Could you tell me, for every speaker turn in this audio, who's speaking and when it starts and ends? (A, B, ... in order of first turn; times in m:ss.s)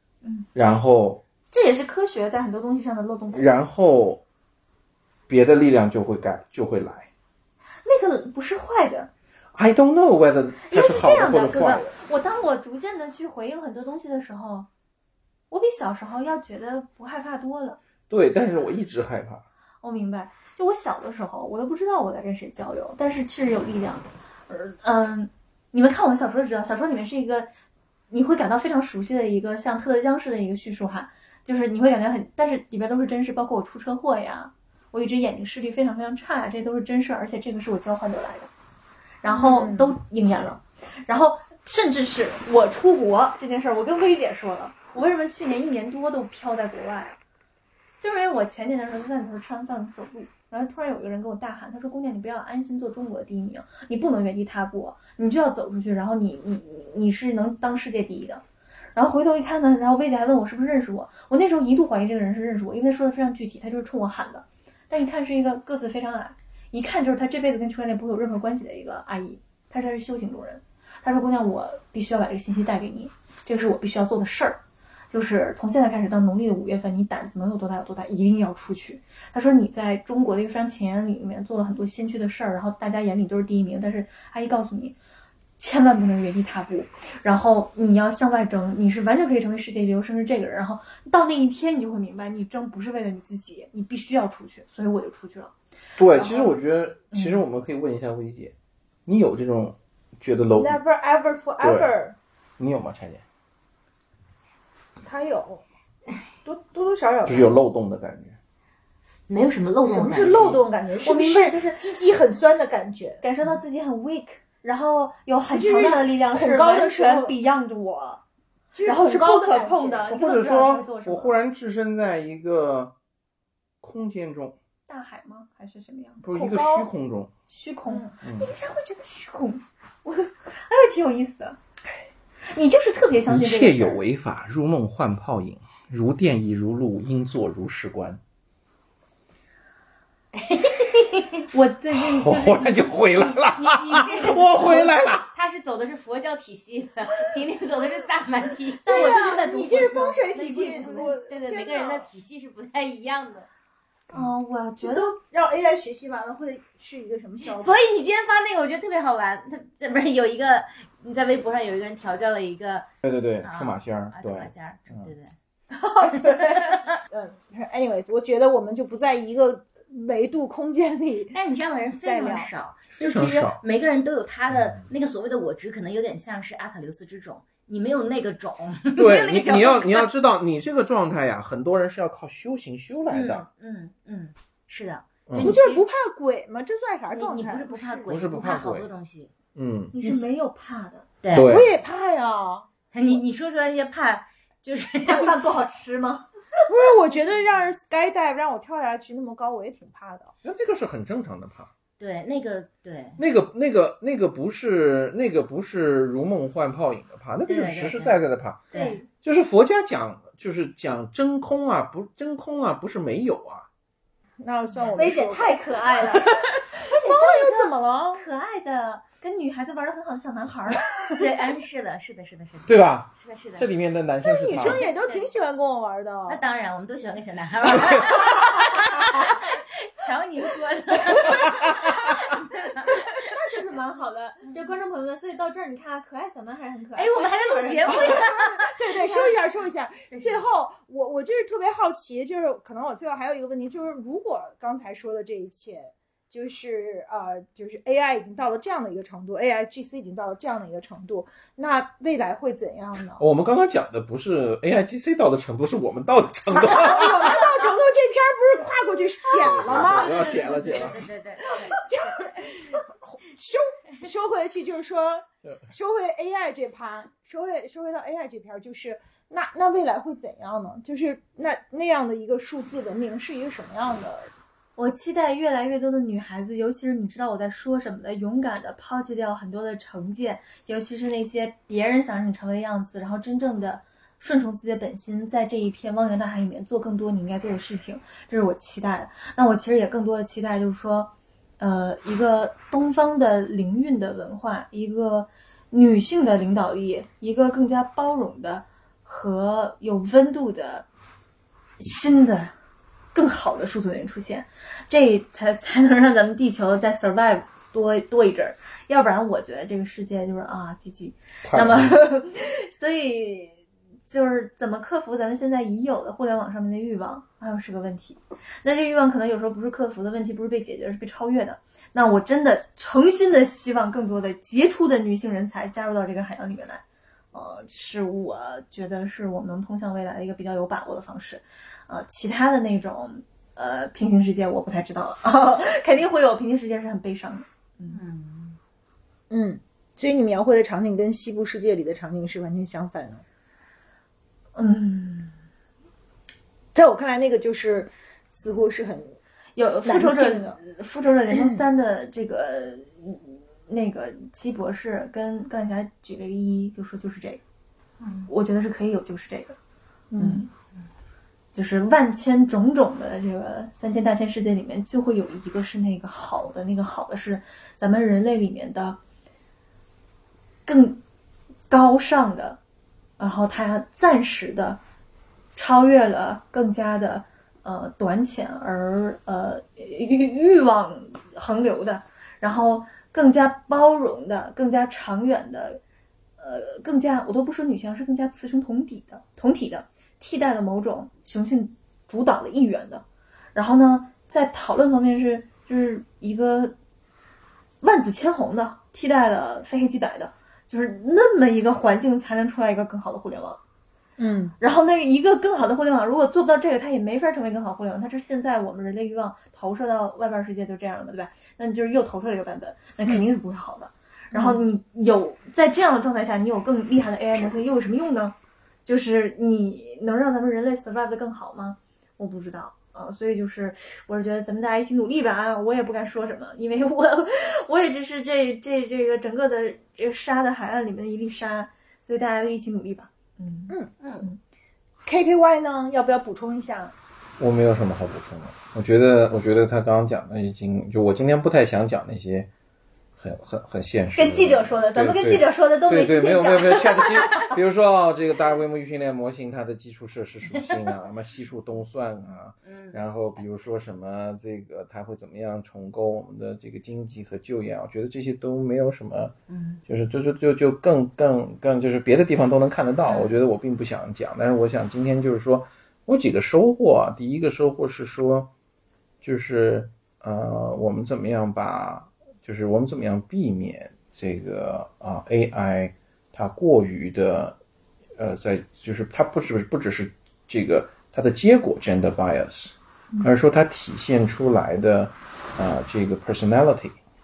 0:00.2-0:00.5 A
0:00.5-0:01.2 B
0:01.5-0:03.5 A
0:03.3-0:04.2 B
0:05.3-0:07.1 B
0:07.8-0:09.1 A
0:09.5-0:12.0 B
0:10.6-0:14.7 A
0:15.5-0:17.8 A
0:18.1-0:19.4 B
0:19.8-0:27.5 A
0:28.1-0:38.5 A
0:39.2-0:47.2 A
0:39.2-0:39.9 C
0:48.0-0:58.4 A
0:59.0-1:14.6 A
1:15.1-1:25.0 A
1:25.6-1:35.5 A
1:36.0-1:38.5 B
1:36.1-1:36.6 A
1:37.1-1:37.4 A
1:39.0-1:40.8 B
1:40.6-1:42.2 C
1:41.6-1:41.9 B
1:42.6-1:43.2 B
1:45.0-1:45.6 C
1:46.4-1:47.5 C
1:47.2-1:48.4 B
1:49.3-1:50.6 D
1:49.8-1:53.2 C
1:51.0-1:51.8 A
1:53.2-1:58.2 A
1:55.5-1:57.3 C
1:58.7-2:00.1 C
1:58.8-2:01.3 A
2:00.1-2:02.9 B
2:03.8-2:04.6 B
2:04.9-2:06.9 A
2:06.2-2:07.3 B
2:07.5-2:11.6 A
2:07.9-2:08.1 C
2:08.2-2:08.5 B
2:12.5-2:14.0 A
2:13.3-2:18.2 B
2:20.3-2:21.4 D
2:21.5-2:23.0 A
2:21.9-2:25.3 B
2:23.2-2:29.8 D
2:28.8-2:31.1 A
2:28.9-2:32.1 C
2:30.6-2:33.5 D
2:34.1-2:35.1 A
2:34.8-2:37.8 C
2:37.4-2:42.9 D
2:43.0-2:45.1 B
2:43.4-2:45.3 D
2:45.7-2:51.3 C
2:46.2-2:47.0 D
2:51.3-3:00.1 D
2:52.0-2:52.5 C
2:52.9-2:53.6 B
2:54.5-2:54.8 B
2:59.0-3:03.5 B
3:03.1-3:05.8 D
3:05.3-3:05.6 B
3:05.4-3:08.1 C
3:07.1-3:09.3 D
3:08.1-3:08.9 B
3:09.5-3:09.9 B
3:09.9-3:11.1 A
3:10.0-3:10.3 D
3:11.2-3:11.6 D
3:11.3-3:11.7 B
3:11.4-3:12.7 C
3:12.9-3:15.4 D
3:15.0-3:16.3 A
3:16.7-3:20.3 C
3:17.1-3:17.8 D
3:20.4-3:21.7 B
3:22.0-3:23.2 D
3:23.2-3:28.6 B
3:27.4-3:28.2 D
3:28.7-3:29.0 D
3:28.7-3:29.1 A
3:29.2-3:33.7 B
3:34.4-3:38.2 C
3:34.7-3:35.1 D
3:35.0-3:41.3 A
3:41.1-3:43.7 D
3:42.6-3:44.9 B
3:44.2-3:46.4 C
3:44.5-3:45.3 D
3:46.2-3:53.3 D
3:53.1-3:58.4 A
3:57.0-3:59.4 D
3:58.6-4:13.2 C
4:00.1-4:00.5 D
4:13.2-4:17.5 B
4:16.5-4:34.3 C
4:19.4-4:21.1 B
4:19.4-4:21.8 D
4:25.4-4:25.7 B
4:34.8-5:00.9 A
5:01.8-5:02.5 A
5:03.1-5:38.0 A
5:11.4-5:12.0 B
5:37.9-5:38.6 D
5:39.3-5:43.2 C
5:44.6-5:45.4 A
5:46.7-5:49.2 C
5:49.6-5:57.4 A
5:49.8-5:50.6 C
5:51.3-5:51.6 C
5:58.0-5:58.3 D
5:58.3-5:59.6 A
6:00.1-6:00.4 C
6:00.2-6:00.5 A
6:01.5-6:09.0 A
6:10.6-6:11.0 A
6:11.7-6:12.6 A
6:13.2-6:14.8 A
6:15.6-6:25.8 A
6:26.4-6:33.0 A
6:33.5-6:36.8 A
6:37.8-6:43.6 A
6:44.2-6:44.5 C
6:44.6-6:58.3 A
6:58.8-7:14.4 A
7:14.0-7:14.3 D
7:15.0-7:16.9 C
7:17.4-7:22.5 B
7:23.2-7:39.3 B
7:24.2-7:27.5 A
7:32.6-7:33.0 D
7:39.5-7:39.8 D
7:39.9-7:48.5 B
7:43.0-7:43.4 D
7:49.2-7:57.6 B
7:58.2-8:07.0 B